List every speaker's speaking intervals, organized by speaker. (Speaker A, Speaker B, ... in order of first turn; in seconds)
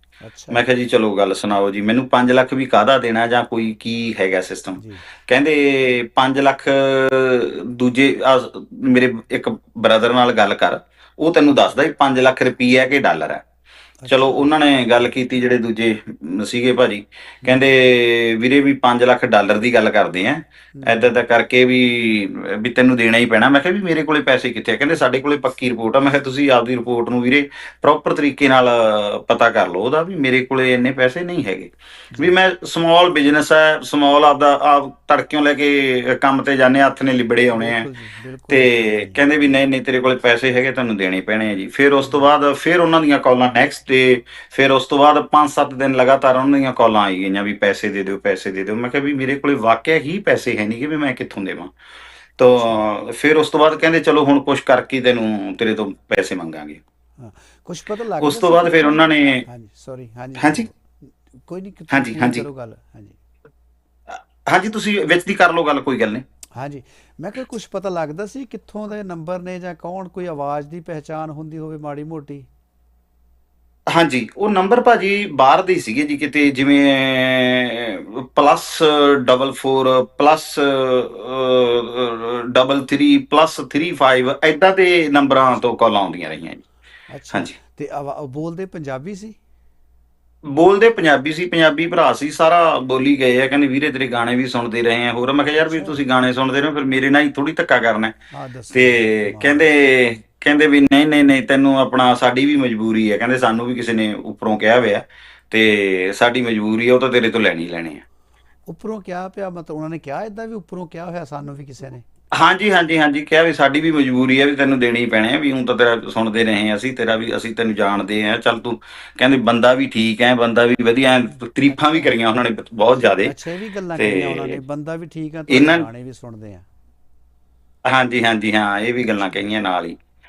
Speaker A: 0.2-0.6, 4.8-5.0, 14.0-14.5, 17.4-17.8, 20.7-21.2, 37.5-39.5, 52.5-52.8, 57.2-60.9, 61.4-63.2, 66.5-72.5, 87.1-89.4, 95.5-96.0, 98.3-99.7, 108.7-112.0, 121.7-122.1, 122.9-126.7
Speaker B: 0.5-13.4, 14.1-37.9, 38.5-51.7, 52.4-56.8, 58.2-59.4, 60.4-60.6, 61.9-62.4, 64.1-66.2, 73.9-86.6, 90.5-98.1, 98.7-108.0, 112.3-123.3, 124.0-124.5, 125.5-125.8, 127.8-130.0